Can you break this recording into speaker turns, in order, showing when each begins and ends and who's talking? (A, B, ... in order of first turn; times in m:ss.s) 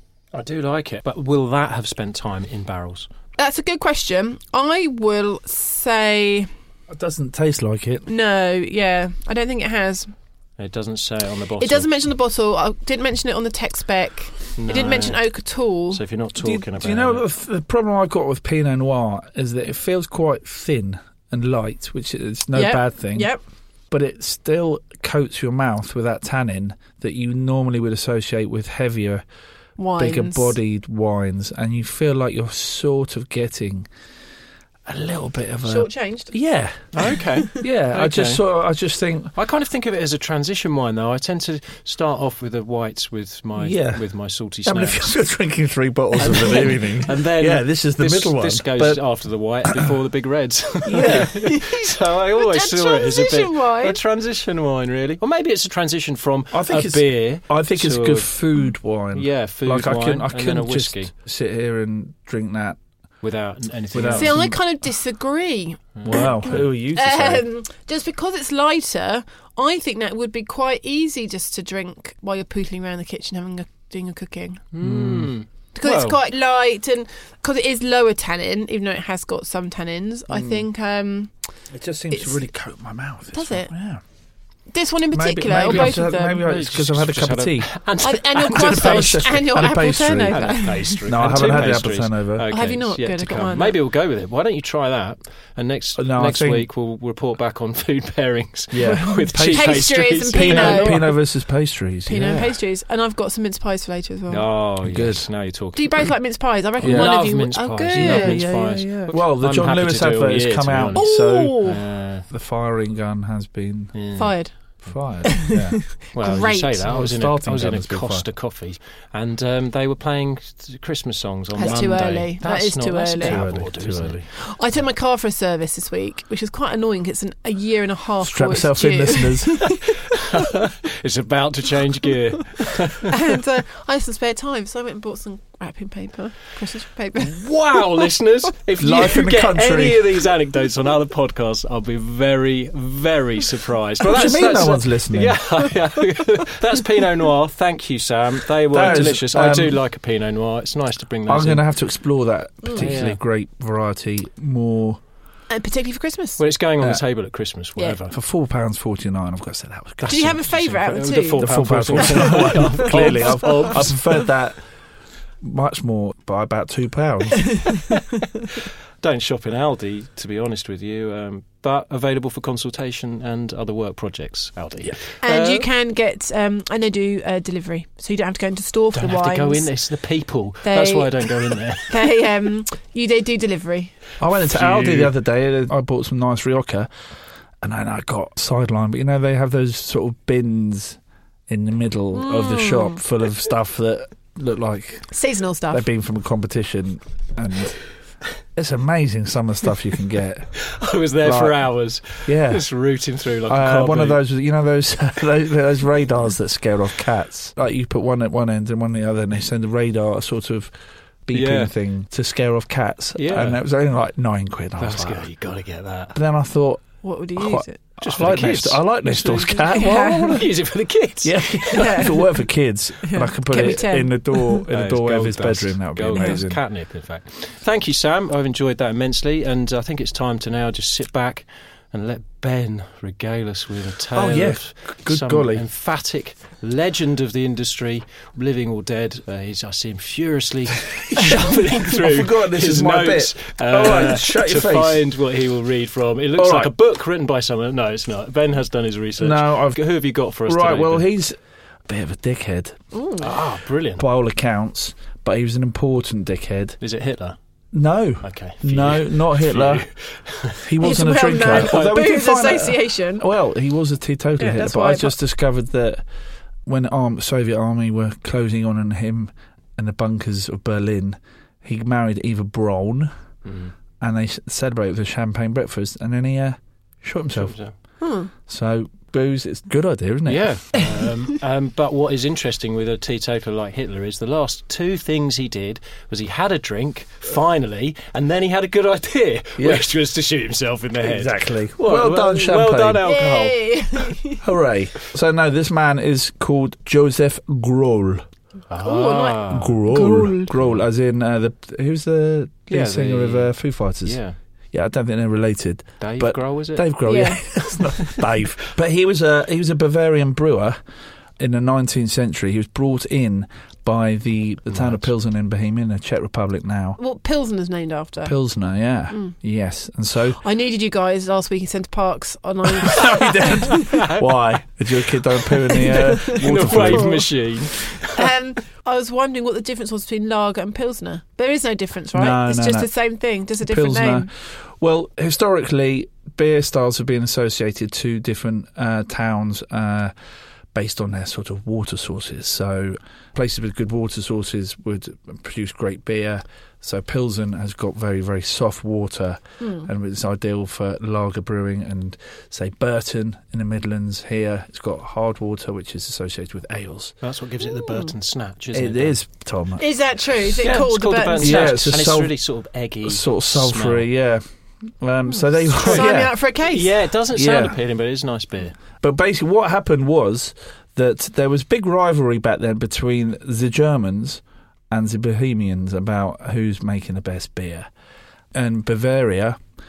0:00.3-0:03.1 A
0:03.4-0:06.5 B
0:06.9-0:08.1 C
0:08.1-0:10.1 B
0:10.6-0:11.9 A
0:11.6-0:16.0 B
0:14.6-0:15.2 A
0:15.9-0:17.2 A
0:16.4-0:23.3 C
0:22.5-0:23.4 B
0:23.9-0:29.2 C
0:29.8-0:30.6 B
0:30.0-0:33.9 C
0:34.9-0:39.3 C
0:35.6-0:36.3 B
0:37.0-0:38.4 A
0:39.4-0:45.1 A
0:43.6-0:44.0 C
0:44.6-0:49.0 C
0:46.2-0:58.4 A
0:50.8-0:51.4 C
0:51.4-0:51.8 B
0:52.4-0:54.0 B
0:56.5-1:02.8 C
0:59.1-1:01.1 A
1:03.2-1:04.4 A
1:03.9-1:04.6 C
1:04.1-1:14.7 B
1:06.0-1:06.7 A
1:06.0-1:07.5 C
1:14.7-1:16.2 A
1:14.8-1:15.3 C
1:15.8-1:21.3 B
1:21.7-1:24.0 C
1:22.1-1:22.4 B
1:23.3-1:23.7 B
1:24.7-1:26.4 B
1:25.1-1:27.7 C
1:25.7-1:29.4 A
1:28.0-1:31.3 B
1:28.5-1:32.5 C
1:30.3-1:41.1 A
1:32.5-1:33.8 B
1:36.0-1:36.7 C
1:38.7-1:42.5 C
1:39.4-1:41.1 B
1:42.1-1:44.5 B
1:42.2-1:42.4 A
1:44.3-1:46.1 A
1:44.8-1:45.3 C
1:45.8-1:48.5 B
1:46.8-1:52.3 A
1:46.8-1:47.3 C
1:47.9-1:51.7 C
1:51.0-1:51.8 B
1:52.3-1:54.0 C
1:53.9-1:54.4 A
1:54.2-1:54.6 B
1:54.8-1:55.9 C
1:55.2-1:56.8 B
1:56.1-2:04.3 A
1:56.8-1:58.3 C
2:01.6-2:03.4 B
2:03.2-2:04.2 C
2:04.5-2:09.8 B
2:08.2-2:09.7 C
2:10.3-2:13.1 A
2:13.1-2:17.4 B
2:17.2-2:31.6 A
2:18.8-2:20.1 C
2:24.0-2:25.5 C
2:28.7-2:29.8 C
2:31.3-2:35.0 C
2:32.8-2:33.2 A
2:35.5-2:36.4 B
2:36.4-2:38.2 A
2:38.1-2:40.4 C
2:40.1-2:41.5 B
2:40.1-2:44.3 A
2:41.4-2:44.6 C
2:42.0-2:43.5 B
2:45.4-2:47.7 C
2:49.0-2:55.7 A
2:55.2-2:59.7 B
2:58.9-3:02.0 A
3:00.6-3:04.0 B
3:04.2-3:06.9 C
3:04.5-3:05.1 A
3:07.6-3:11.0 C
3:11.5-3:15.1 C
3:12.1-3:13.0 B
3:15.1-3:15.9 B
3:15.7-3:17.8 C
3:18.6-3:20.6 C
3:20.7-3:24.2 A
3:21.2-3:22.7 C
3:23.5-3:30.7 C
3:31.3-3:35.3 C
3:31.3-3:31.7 A
3:33.2-3:33.6 A
3:34.8-3:36.2 A
3:36.1-3:40.5 C
3:37.0-3:37.8 B
3:38.0-3:42.0 A
3:39.7-3:40.4 B
3:41.2-3:46.6 C
3:41.8-3:42.2 B
3:43.0-3:44.6 B
3:44.7-4:11.1 A
3:54.1-3:55.6 C
4:01.2-4:05.0 C
4:06.4-4:06.7 C
4:09.2-4:09.8 C
4:10.4-4:12.8 C
4:12.9-4:13.3 B
4:13.2-4:14.1 A
4:14.0-4:16.8 C
4:16.8-4:17.4 A
4:17.7-4:19.9 C
4:18.2-4:20.6 A
4:20.6-4:26.0 C
4:20.8-4:23.2 B
4:21.5-4:22.0 A
4:24.4-4:25.2 B
4:26.7-4:33.1 C
4:33.4-4:33.7 A
4:34.0-4:37.6 C
4:37.3-4:37.8 A
4:38.0-4:38.3 B
4:38.5-4:40.8 C
4:40.3-4:54.2 A
4:49.6-4:49.9 C
4:51.0-4:53.1 C
4:53.0-4:54.4 B
4:54.4-4:58.2 C
4:58.7-4:59.8 A
4:58.8-5:00.5 B
4:59.5-5:04.2 C
5:02.7-5:03.5 A
5:04.0-5:04.4 A
5:04.7-5:10.8 C
5:06.0-5:06.9 A
5:07.0-5:07.6 B
5:11.4-5:17.0 C
5:14.7-5:15.1 A
5:17.0-5:18.4 B
5:18.2-5:20.4 C
5:19.1-5:19.4 B
5:20.4-5:23.8 B
5:22.8-5:27.4 C
5:23.9-5:24.2 A
5:25.7-5:27.2 B
5:26.2-5:28.3 A
5:28.1-5:34.3 B
5:32.1-5:32.9 C
5:33.6-5:40.1 C
5:40.7-5:57.2 C
5:49.6-5:49.9 B
5:57.2-5:59.2 A
5:58.7-5:59.8 C
5:59.8-6:01.7 B
6:00.6-6:04.1 A
6:01.3-6:02.4 C
6:03.0-6:04.4 C
6:05.0-6:06.4 C
6:05.7-6:08.8 A
6:05.8-6:06.9 B
6:07.4-6:07.8 C
6:09.0-6:17.9 C
6:18.6-6:19.6 C